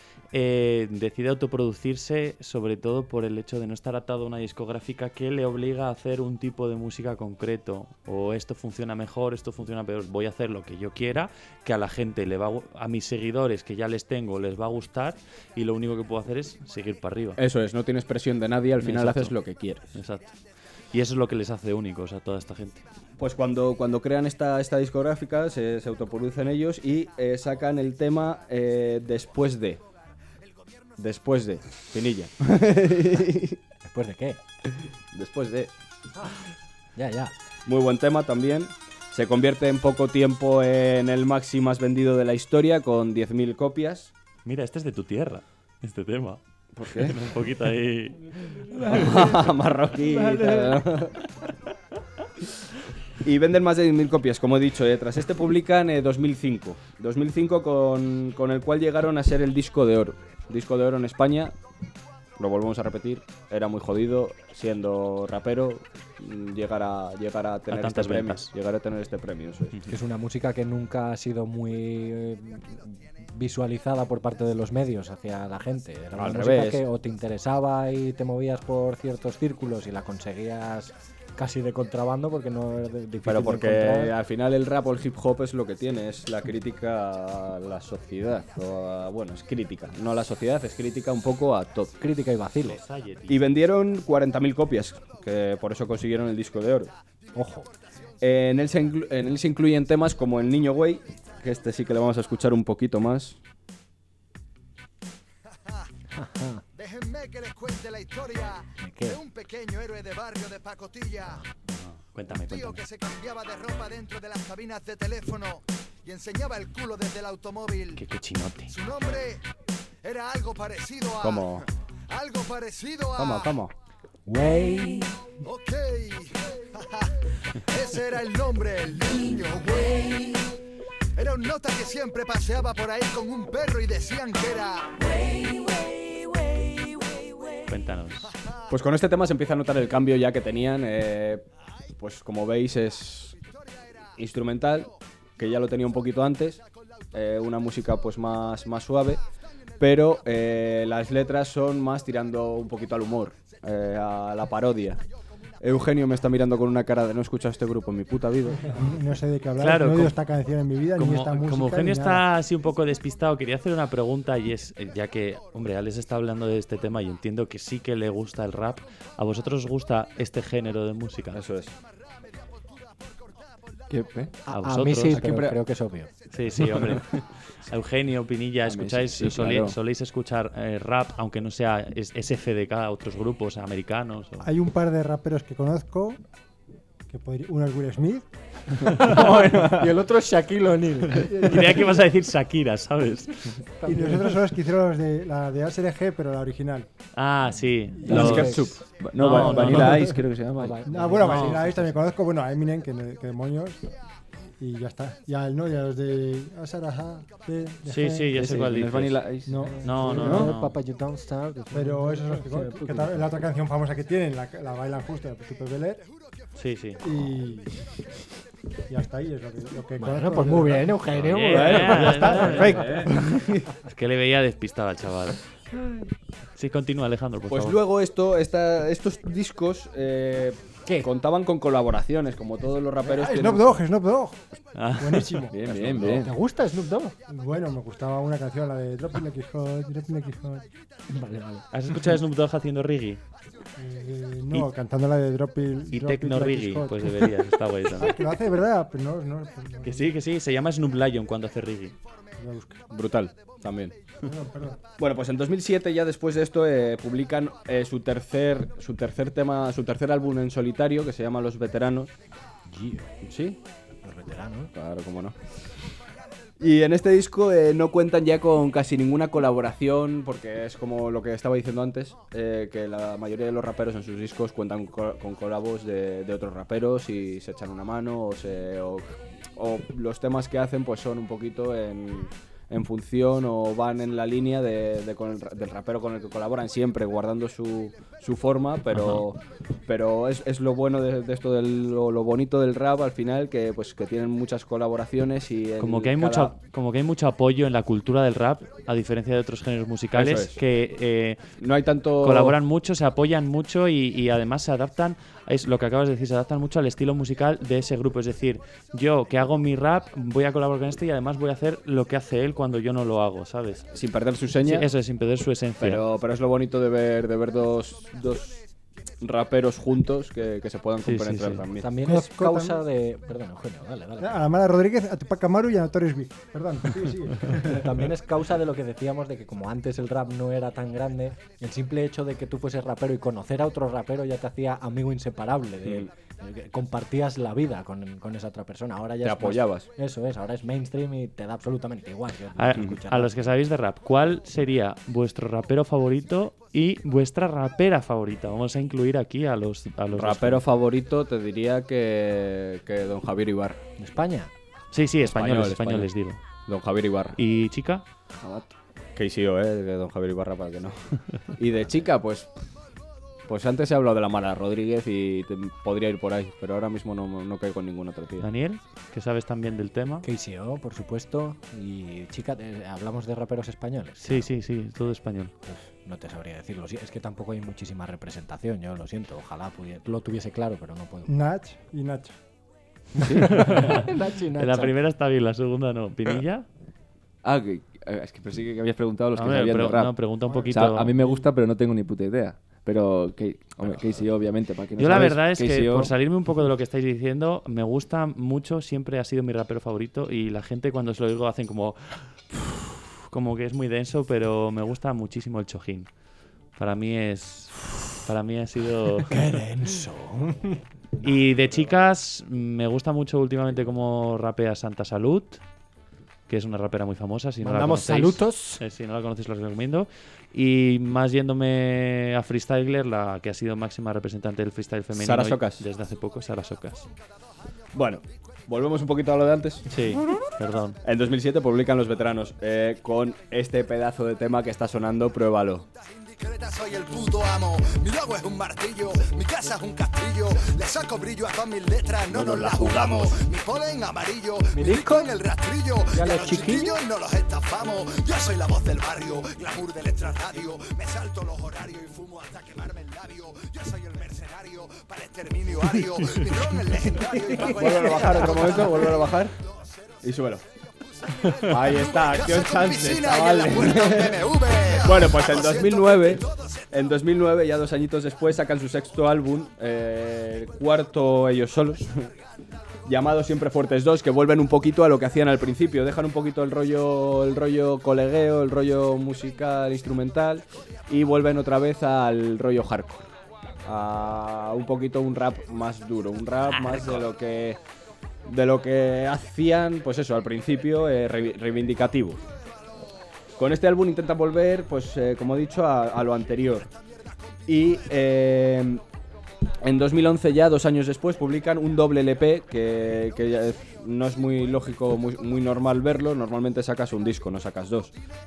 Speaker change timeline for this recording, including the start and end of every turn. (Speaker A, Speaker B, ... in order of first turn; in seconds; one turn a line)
Speaker A: 0.3-17.4
Speaker B: 17.4-19.9
Speaker A: 18.8-20.4
Speaker A: 20.9-22.8
Speaker B: 23.2-29.8
Speaker B: 31.0-33.6
Speaker C: 33.9-34.4
Speaker B: 35.1-35.7
Speaker C: 37.0-37.3
Speaker B: 37.6-44.1
Speaker A: 44.4-49.2
Speaker B: 46.8-47.2
Speaker B: 48.8-51.2
Speaker D: 50.2-50.7
Speaker B: 53.2-61.5
Speaker B: 62.4-69.8
Speaker A: 67.7-68.5
Speaker C: 69.9-84.1
Speaker B: 76.1-76.8
Speaker B: 83.2-92.0
Speaker C: 92.0-92.8
Speaker A: 92.6-93.4
Speaker B: 93.3-96.9
Speaker C: 97.3-97.7
Speaker B: 98.2-103.4
Speaker C: 106.1-106.6
Speaker E: 106.7-111.5
Speaker C: 108.8-109.2
Speaker A: 111.7-112.8
Speaker E: 112.5-118.0
Speaker A: 118.0-118.7
Speaker E: 118.7-119.4
Speaker E: 120.0-123.5
Speaker B: 121.2-121.7
Speaker B: 123.2-123.7
Speaker C: 124.2-125.2
Speaker E: 125.4-130.6
Speaker E: 131.2-137.5
Speaker A: 137.7-138.3
Speaker B: 138.7-143.3
Speaker B: 144.2-146.6
Speaker B: 147.1-149.2
Speaker B: 149.8-155.0
Speaker B: 155.6-158.7
Speaker F: 158.7-162.2
Speaker A: 159.6-160.2
Speaker A: 160.9-171.4
Speaker B: 171.3-171.7
Speaker D: 173.9-174.3
Speaker C: 174.4-176.1
Speaker A: 174.5-175.2
Speaker D: 175.1-175.6
Speaker A: 176.3-184.5
Speaker D: 178.6-179.8
Speaker F: 184.4-186.2
Speaker F: 187.1-188.3
Speaker C: 188.9-191.8
Speaker D: 189.0-189.9
Speaker F: 191.2-191.8
Speaker A: 191.4-193.6
Speaker C: 193.8-194.3
Speaker F: 193.8-196.9
Speaker A: 197.1-200.1
Speaker F: 198.0-198.6
Speaker D: 198.0-200.8
Speaker C: 198.1-198.6
Speaker F: 199.2-200.2
Speaker C: 200.5-202.0
Speaker F: 200.8-203.8
Speaker A: 201.2-201.6
Speaker F: 204.6-208.6
Speaker A: 207.8-209.2
Speaker D: 208.3-209.7
Speaker F: 209.4-210.5
Speaker C: 209.6-213.3
Speaker A: 209.8-210.7
Speaker F: 211.7-216.0
Speaker A: 216.6-217.0
Speaker F: 217.0-217.7
Speaker F: 218.9-221.0
Speaker C: 220.0-223.1
Speaker A: 221.2-223.2
Speaker B: 221.5-223.7
Speaker A: 223.8-225.4
Speaker A: 226.5-227.8
Speaker B: 227.5-233.8
Speaker F: 233.2-234.4
Speaker A: 234.7-235.5
Speaker F: 235.0-235.6
Speaker D: 235.5-236.3
Speaker C: 235.9-237.1
Speaker F: 237.3-240.6
Speaker C: 241.1-241.6
Speaker A: 241.7-243.2
Speaker F: 243.8-247.3
Speaker A: 245.9-248.4
Speaker F: 247.8-250.1
Speaker A: 249.8-252.0
Speaker F: 252.4-252.8
Speaker B: 252.9-253.9
Speaker F: 254.2-254.8
Speaker B: 255.0-262.1
Speaker C: 262.7-263.1
Speaker B: 263.2-263.6
Speaker C: 264.0-264.7
Speaker B: 264.7-265.4
Speaker B: 266.6-296.5
Speaker A: 288.9-289.2
Speaker A: 295.8-301.4
Speaker B: 300.1-300.6
Speaker B: 301.6-302.6
Speaker A: 302.2-313.9
Speaker B: 313.9-314.9
Speaker A: 314.6-316.0
Speaker B: 315.8-318.6
Speaker B: 319.2-321.9
Speaker A: 321.0-321.6
Speaker C: 321.8-324.4
Speaker F: 322.0-322.8
Speaker F: 324.2-327.9
Speaker C: 327.5-343.5
Speaker B: 339.2-339.9
Speaker A: 342.6-350.6
Speaker B: 350.1-353.8
Speaker C: 354.0-354.5
Speaker A: 354.9-356.4
Speaker B: 355.2-356.1
Speaker B: 356.7-357.4
Speaker A: 357.4-358.0
Speaker B: 359.1-362.5
Speaker B: 363.5-368.5
Speaker A: 368.4-370.2
Speaker C: 370.2-374.5
Speaker A: 374.2-375.5
Speaker C: 375.7-381.3
Speaker F: 381.3-382.3
Speaker D: 383.2-383.8
Speaker C: 383.5-384.9
Speaker A: 383.5-384.0
Speaker A: 384.6-386.6
Speaker D: 387.4-396.1
Speaker A: 389.3-391.1
Speaker F: 390.5-391.4
Speaker A: 395.0-406.1
Speaker A: 406.8-409.6
Speaker C: 409.3-410.8
Speaker A: 411.2-415.6
Speaker A: 416.5-427.1
Speaker C: 417.6-418.8
Speaker B: 425.1-425.8
Speaker B: 427.9-429.9
Speaker A: 429.9-431.0
Speaker B: 431.0-435.9
Speaker E: 436.2-459.4
Speaker B: 442.3-443.3
Speaker C: 444.7-445.3
Speaker C: 446.1-447.0
Speaker C: 457.2-458.8
Speaker B: 457.6-459.6
Speaker B: 460.2-460.6
Speaker E: 461.4-466.9
Speaker B: 461.6-472.3
Speaker B: 473.0-483.3
Speaker B: 483.8-487.8
Speaker B: 488.4-492.4
Speaker B: 493.6-496.9
Speaker B: 497.6-499.0
Speaker B: 499.8-508.1